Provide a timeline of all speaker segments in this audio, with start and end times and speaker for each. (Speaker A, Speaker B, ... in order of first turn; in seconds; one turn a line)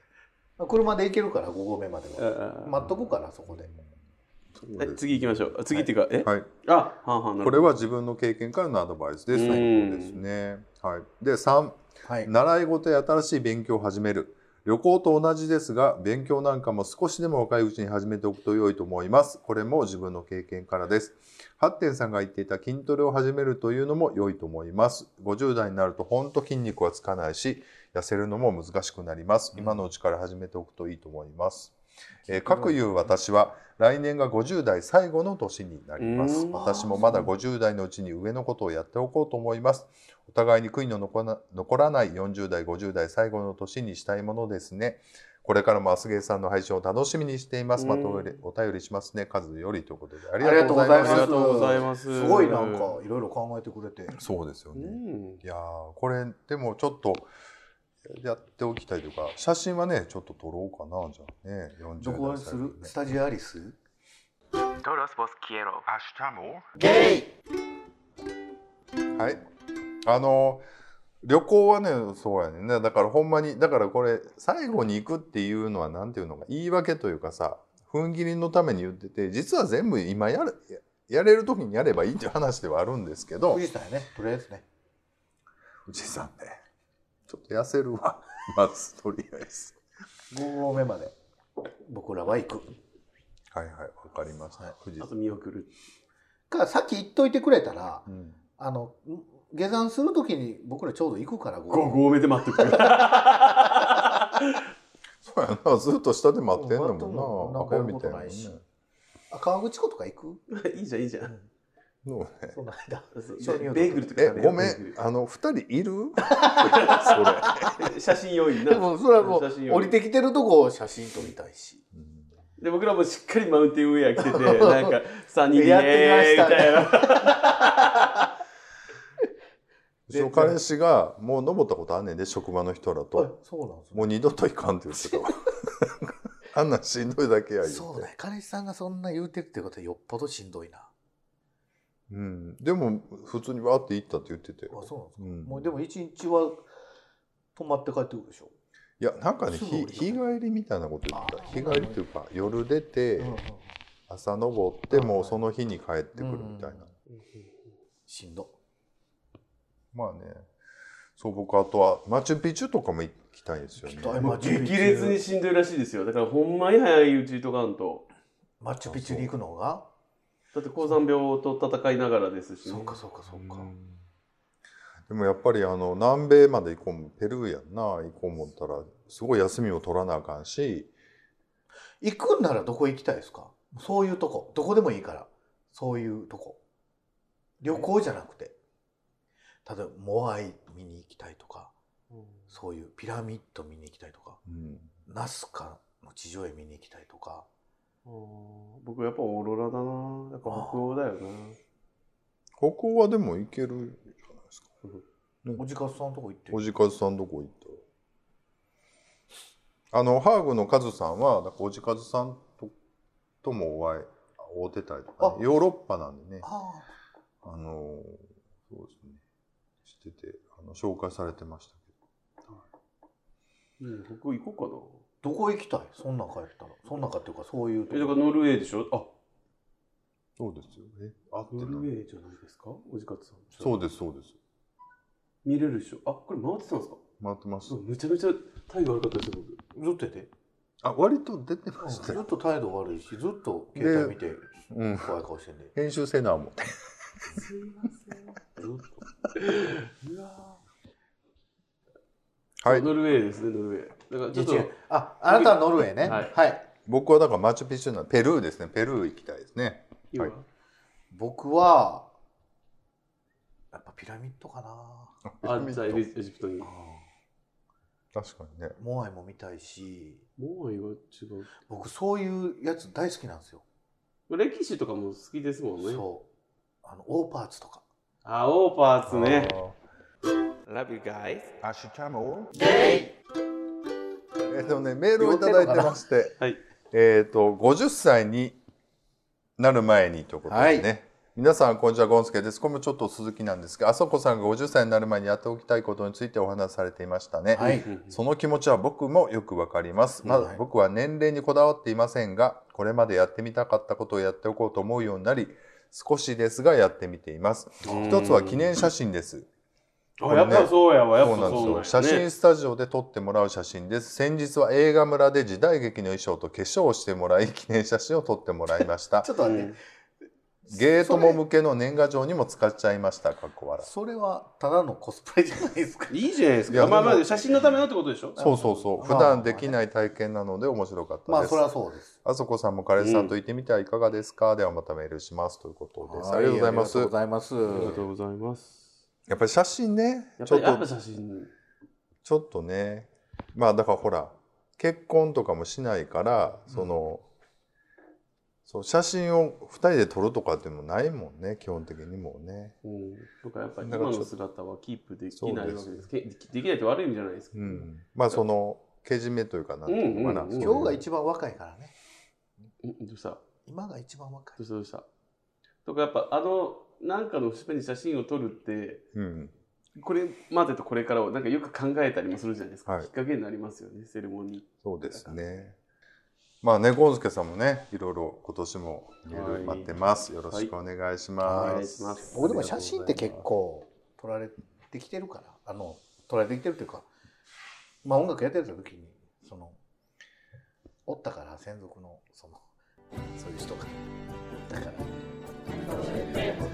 Speaker A: 0.6-3.7
Speaker B: 2.2-3.1
Speaker C: 4.5-6.5
Speaker B: 4.8-7.7
Speaker C: 7.4-31.7
Speaker B: 9.3-10.2
Speaker A: 12.0-12.3
Speaker A: 29.5-29.8
Speaker C: 32.3-51.8
Speaker B: 36.0-36.9
Speaker A: 36.5-37.3
Speaker B: 47.8-48.4
Speaker A: 50.4-54.2
Speaker B: 50.5-53.0
Speaker C: 54.1-57.3
Speaker B: 54.7-55.4
Speaker C: 58.0-62.9
Speaker A: 62.0-63.8
Speaker B: 64.8-65.8
Speaker C: 65.8-66.7
Speaker C: 69.2-69.4
Speaker C: 70.0-70.6
Speaker C: 71.2-83.6
Speaker A: 83.5-84.6
Speaker C: 85.9-86.6
Speaker C: 87.3-89.8
Speaker A: 90.3-91.2
Speaker A: 91.8-92.7
Speaker C: 93.5-95.3
Speaker B: 95.0-95.7
Speaker A: 96.5-98.1
Speaker C: 98.1-98.4
Speaker A: 98.6-102.9
Speaker B: 101.7-104.6
Speaker C: 105.2-108.6
Speaker A: 106.5-108.6
Speaker A: 109.3-110.4
Speaker B: 110.5-111.3
Speaker C: 112.0-112.6
Speaker A: 112.5-114.7
Speaker B: 113.2-114.9
Speaker C: 114.1-117.9
Speaker A: 116.3-117.3
Speaker B: 116.7-117.2
Speaker B: 117.8-120.0
Speaker A: 118.6-121.8
Speaker C: 121.9-122.3
Speaker B: 122.6-128.2
Speaker A: 124.2-124.9
Speaker A: 125.5-128.2
Speaker C: 130.1-133.3
Speaker A: 130.1-130.6
Speaker A: 133.1-134.1
Speaker C: 133.9-138.1
Speaker A: 137.6-140.9
Speaker C: 142.1-145.7
Speaker A: 144.7-146.7
Speaker A: 147.6-148.5
Speaker C: 149.0-153.4
Speaker A: 149.5-150.2
Speaker A: 151.1-152.0
Speaker A: 153.2-153.7
Speaker C: 154.1-156.9
Speaker A: 154.9-155.4
Speaker A: 156.1-156.9
Speaker B: 157.2-157.5
Speaker A: 158.1-158.5
Speaker C: 159.9-160.5
Speaker C: 161.2-164.3
Speaker A: 163.8-165.2
Speaker B: 164.2-168.1
Speaker A: 168.6-169.9
Speaker C: 168.8-169.3
Speaker B: 170.5-173.0
Speaker A: 172.7-173.7
Speaker C: 173.3-174.0
Speaker C: 175.1-180.9
Speaker A: 182.0-186.6
Speaker A: 187.6-188.6
Speaker A: 189.6-191.7
Speaker B: 192.1-192.4
Speaker A: 192.5-194.4
Speaker C: 194.5-194.9
Speaker A: 195.1-197.5
Speaker B: 198.0-201.6
Speaker A: 200.4-200.9
Speaker C: 202.6-204.7
Speaker A: 205.6-206.6
Speaker C: 206.5-207.8
Speaker C: 209.9-212.7
Speaker C: 213.4-216.5
Speaker A: 216.4-216.9
Speaker C: 217.4-219.2
Speaker C: 219.9-221.8
Speaker B: 223.8-225.0
Speaker A: 225.2-228.2
Speaker B: 227.9-229.1
Speaker C: 230.4-231.9
Speaker B: 231.5-233.7
Speaker C: 233.6-234.4
Speaker B: 235.4-237.0
Speaker C: 237.2-237.8
Speaker B: 237.7-239.6
Speaker A: 239.7-240.3
Speaker C: 240.8-242.2
Speaker A: 241.8-245.7
Speaker C: 243.8-244.2
Speaker C: 244.7-245.1
Speaker C: 245.7-246.8
Speaker B: 247.4-250.6
Speaker C: 252.6-252.9
Speaker B: 252.6-256.3
Speaker A: 254.3-256.7
Speaker C: 256.9-260.3
Speaker B: 260.1-260.4
Speaker A: 261.1-262.1
Speaker A: 263.7-265.1
Speaker C: 265.2-266.0
Speaker B: 265.4-266.7
Speaker A: 266.6-267.0
Speaker C: 268.1-268.8
Speaker A: 268.8-270.2
Speaker B: 270.4-271.6
Speaker A: 271.7-273.6
Speaker B: 274.3-276.0
Speaker A: 275.8-276.3
Speaker A: 276.8-277.8
Speaker B: 278.2-279.5
Speaker C: 279.1-279.8
Speaker B: 280.7-281.5
Speaker C: 281.6-282.5
Speaker B: 282.6-282.9
Speaker C: 284.5-286.4
Speaker A: 285.2-285.8
Speaker B: 285.4-286.6
Speaker C: 286.9-288.6
Speaker C: 289.6-309.5
Speaker A: 290.5-290.9
Speaker A: 297.5-297.9
Speaker B: 297.6-298.1
Speaker A: 300.2-300.6
Speaker B: 307.9-308.8
Speaker A: 307.9-308.2
Speaker B: 310.2-312.2
Speaker C: 310.2-319.3
Speaker A: 319.2-319.8
Speaker B: 319.4-319.8
Speaker A: 320.6-321.4
Speaker C: 320.7-323.9
Speaker A: 323.8-326.2
Speaker B: 326.1-328.8
Speaker C: 326.7-327.2
Speaker A: 326.8-327.2
Speaker A: 328.4-329.8
Speaker C: 328.4-331.7
Speaker A: 331.3-332.1
Speaker C: 332.2-337.1
Speaker B: 333.0-333.3
Speaker A: 336.0-338.0
Speaker B: 337.6-338.9
Speaker C: 339.3-340.9
Speaker B: 340.4-341.5
Speaker C: 342.2-347.2
Speaker C: 348.7-352.8
Speaker B: 352.8-358.4
Speaker C: 353.8-354.3
Speaker C: 355.3-356.1
Speaker C: 357.5-361.0
Speaker B: 359.9-360.9
Speaker A: 360.6-361.9
Speaker B: 362.8-363.4
Speaker A: 363.6-364.6
Speaker B: 364.6-365.1
Speaker B: 365.8-369.0
Speaker C: 369.1-369.5
Speaker B: 369.9-375.3
Speaker C: 374.8-375.8
Speaker C: 376.6-383.3
Speaker B: 379.3-380.7
Speaker B: 381.4-383.4
Speaker A: 381.4-387.1
Speaker A: 388.0-389.8
Speaker A: 391.1-392.6
Speaker A: 393.3-394.0
Speaker A: 394.6-395.2
Speaker A: 396.0-396.5